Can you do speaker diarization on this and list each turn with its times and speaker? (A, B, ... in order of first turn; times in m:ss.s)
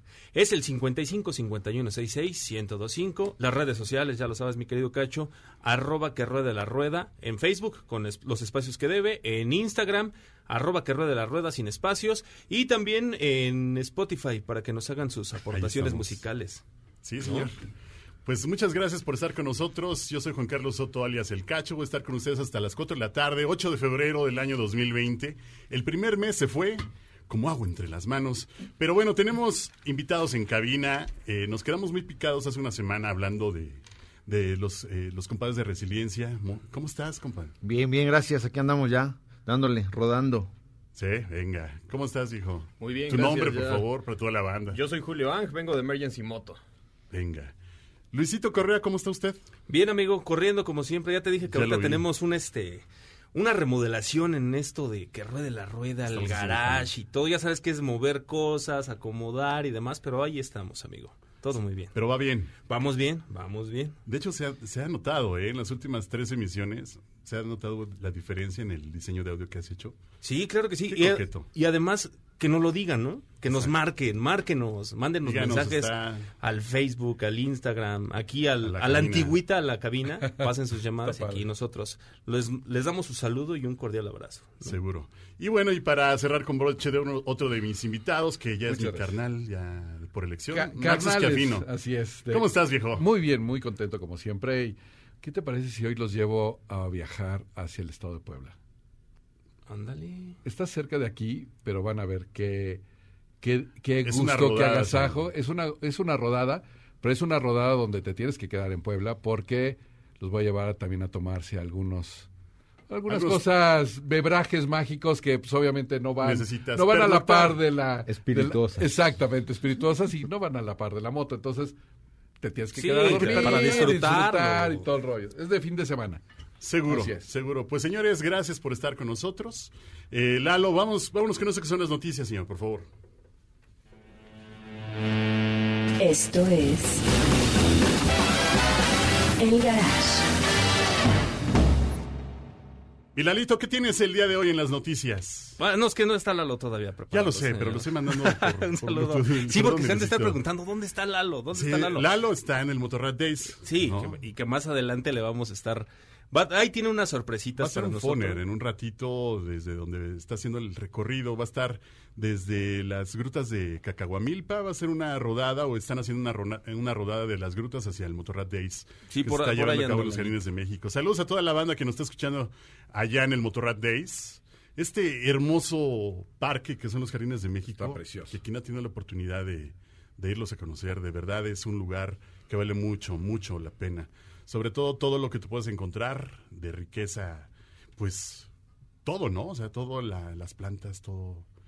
0:00.3-0:16.6 A
0:15.5-0:16.2 B
0:17.0-0:17.6 B
0:17.2-0:17.5 A
0:18.2-0:37.5 B
0:37.6-0:40.5 C
0:40.9-0:44.8 B
0:42.8-0:43.9 D
0:44.7-0:46.6 D
0:47.1-0:47.5 B
0:48.1-0:49.4 B
0:49.7-1:01.9 A
0:51.5-0:52.0 B
0:56.1-0:56.9 B
1:01.9-1:02.5 B
1:02.6-1:04.0 A
1:04.0-1:09.9 B
1:10.2-1:24.7 A
1:10.9-1:11.5 B
1:15.2-1:16.3 B
1:18.6-1:19.4 B
1:21.0-1:21.4 E
1:24.6-1:31.7 B
1:28.7-1:29.2 E
1:30.5-1:38.6 E
1:32.2-1:33.0 B
1:39.7-1:40.4 A
1:40.4-1:42.8 E
1:43.4-1:52.3 E
1:44.0-1:45.2 B
1:52.9-2:01.8 E
1:53.1-1:53.4 B
1:56.2-1:57.6 B
1:58.0-1:58.9 C
2:02.4-2:06.2 E
2:02.7-2:04.9 A
2:03.1-2:03.6 B
2:06.6-2:12.9 B
2:06.9-2:07.3 E
2:16.0-2:17.0 F
2:19.4-2:20.2 F
2:23.1-2:25.6 B
2:25.6-2:32.1 A
2:27.1-2:30.4 B
2:31.5-2:34.2 B
2:33.6-2:38.4 A
2:37.6-3:08.5 B
2:49.1-2:50.4 A
2:57.8-2:58.4 E
3:09.0-3:11.5 B